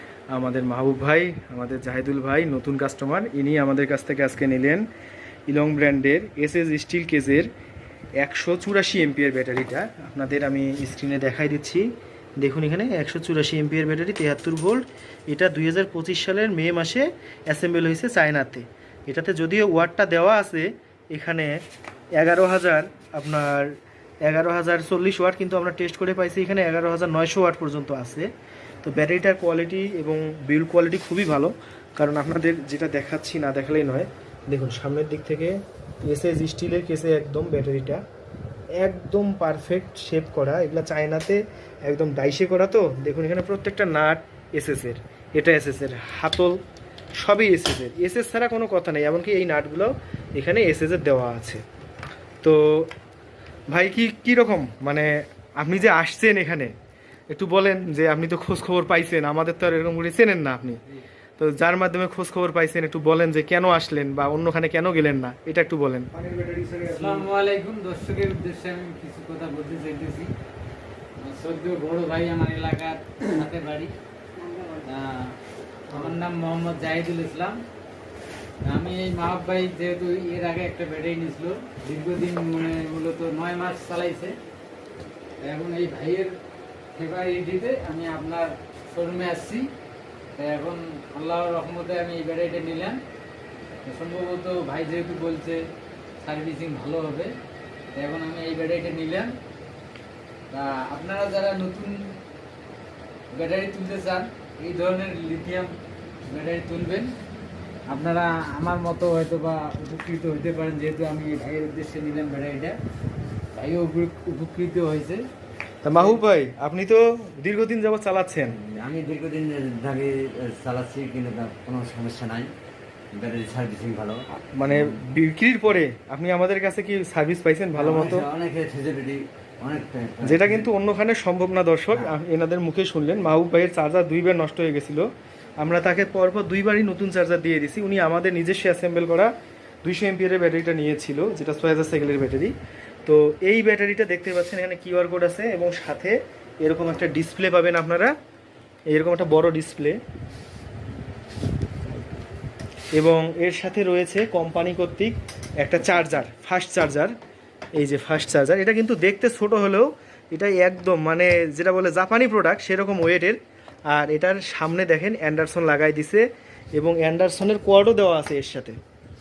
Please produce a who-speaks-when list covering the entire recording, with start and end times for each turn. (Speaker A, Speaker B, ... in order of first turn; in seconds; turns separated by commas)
Speaker A: 0.3-4.8, Speaker A: 5.5-7.5, Speaker A: 8.2-11.8, Speaker A: 12.4-21.5, Speaker A: 22.2-28.3, Speaker A: 28.8-38.0, Speaker A: 38.8-46.6, Speaker A: 47.2-51.6, Speaker A: 52.4-52.9, Speaker A: 53.7-56.7, Speaker A: 57.3-60.8, Speaker A: 61.4-67.3, Speaker B: 66.9-70.3, Speaker B: 71.2-73.9, Speaker B: 74.8-75.3, Speaker B: 75.9-77.6, Speaker B: 78.7-84.4, Speaker B: 85.4-86.3, Speaker B: 86.9-89.7, Speaker B: 90.3-93.0, Speaker B: 93.8-95.6, Speaker B: 96.2-97.3, Speaker B: 97.9-99.3, Speaker B: 100.5-102.2, Speaker B: 103.3-105.7, Speaker B: 106.3-107.1, Speaker B: 107.9-112.8, Speaker B: 113.5-115.2, Speaker A: 115.8-118.5, Speaker C: 118.6-122.5, Speaker C: 123.1-124.9, Speaker A: 124.4-128.3, Speaker C: 127.7-130.7, Speaker A: 130.2-135.1, Speaker A: 135.6-139.3, Speaker A: 139.8-142.5, Speaker A: 143.0-148.1, Speaker A: 148.9-150.0, Speaker A: 152.9-157.1, Speaker A: 157.8-163.4, Speaker A: 163.9-166.2, Speaker A: 166.8-168.8